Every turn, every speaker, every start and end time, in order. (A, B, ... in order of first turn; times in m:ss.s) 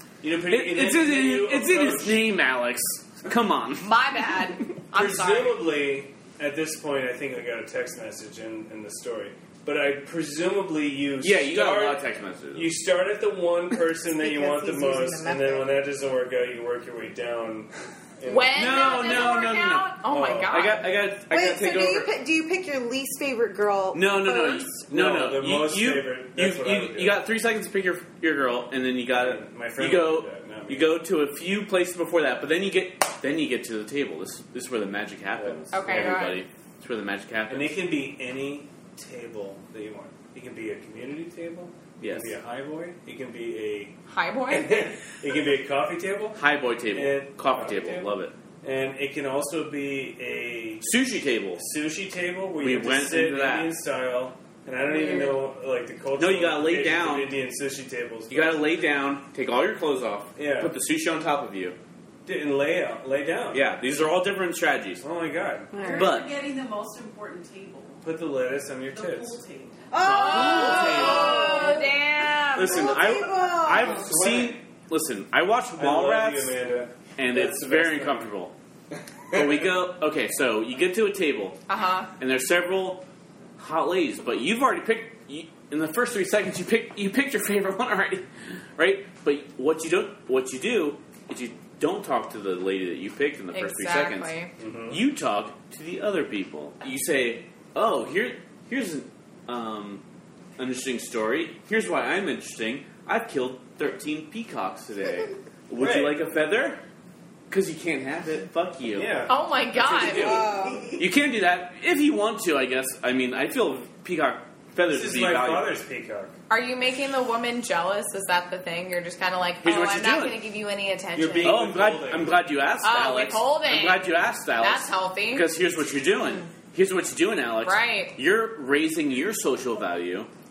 0:00.2-0:02.2 A
0:00.5-0:03.9 B
0:03.8-0:05.6 C
0:04.9-0:19.2 A
0:11.2-0:12.7 B
0:14.0-0:15.8 D
0:18.2-0:20.9 C
0:18.5-0:19.9 B
0:20.1-0:20.6 A
0:20.5-0:22.1 B
0:21.3-0:24.7 D
0:23.9-0:37.8 B
0:24.9-0:27.2 A
0:29.1-0:30.9 A
0:35.4-0:36.2 A
0:35.7-0:36.4 C
0:37.5-0:44.0 A
0:42.0-0:42.3 B
0:44.1-0:44.9 C
0:44.5-0:46.4 A
0:46.3-0:48.3 B
0:46.9-0:50.9 A
0:50.8-0:51.7 B
0:51.6-0:58.8 A
0:52.6-0:53.7 B
0:56.2-0:57.4 B
0:58.3-1:01.8 B
1:00.4-1:00.7 A
1:02.2-1:03.6 A
1:03.5-1:05.0 B
1:05.0-1:05.8 A
1:05.7-1:08.1 E
1:05.7-1:06.0 D
1:05.9-1:06.3 B
1:08.0-1:09.4 A
1:08.9-1:10.0 E
1:09.9-1:11.9 D
1:10.0-1:11.7 B
1:10.0-1:13.0 C
1:12.5-1:16.6 B
1:12.6-1:14.1 D
1:13.7-1:14.6 A
1:15.7-1:18.3 A
1:17.2-1:18.5 B
1:19.3-1:19.7 A
1:19.3-1:21.6 B
1:21.7-1:22.1 C
1:22.2-1:23.0 B
1:23.6-1:34.3 B
1:33.5-1:34.5 C
1:34.6-1:35.0 A
1:34.9-1:40.0 B
1:40.6-1:46.8 B
1:45.7-1:46.2 A
1:47.5-1:49.2 B
1:48.9-1:49.3 A
1:49.3-1:50.5 C
1:49.9-1:50.4 A
1:50.2-1:50.9 D
1:50.5-1:51.0 E
1:51.0-1:55.8 B
1:54.8-1:56.3 A
1:56.5-2:01.7 C
1:59.6-2:00.4 B
2:01.1-2:02.3 A
2:01.4-2:10.3 B
2:02.8-2:05.5 C
2:07.6-2:08.1 C